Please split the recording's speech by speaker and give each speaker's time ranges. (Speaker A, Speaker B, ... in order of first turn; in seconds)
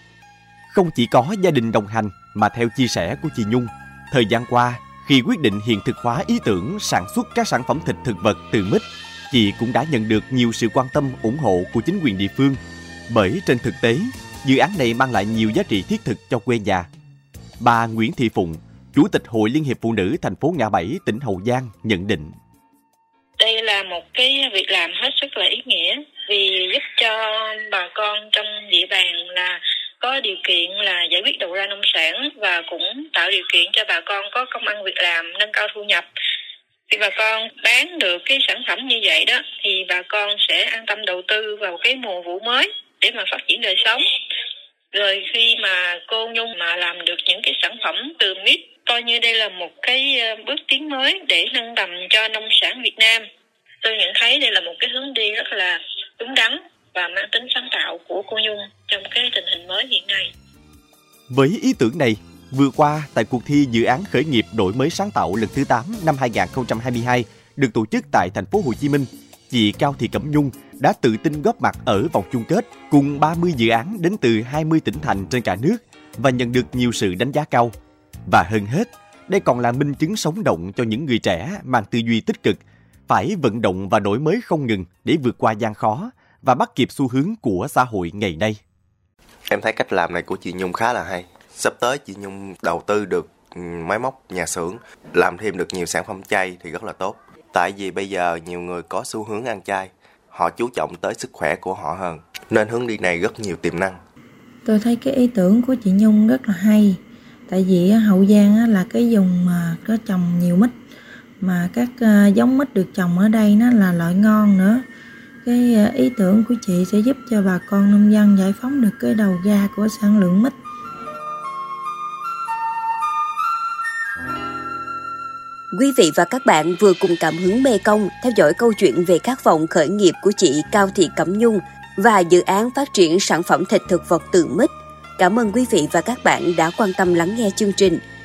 Speaker A: 0.7-12.6, 13.1-16.9, 17.6-22.3, 61.3-77.7, 78.3-88.6
Speaker B: 23.4-36.0, 36.9-44.0, 44.9-53.2, 53.8-60.3
Speaker C: 89.5-104.0
Speaker D: 104.7-110.7, 111.4-114.8, 115.4-120.5
Speaker E: 125.7-138.0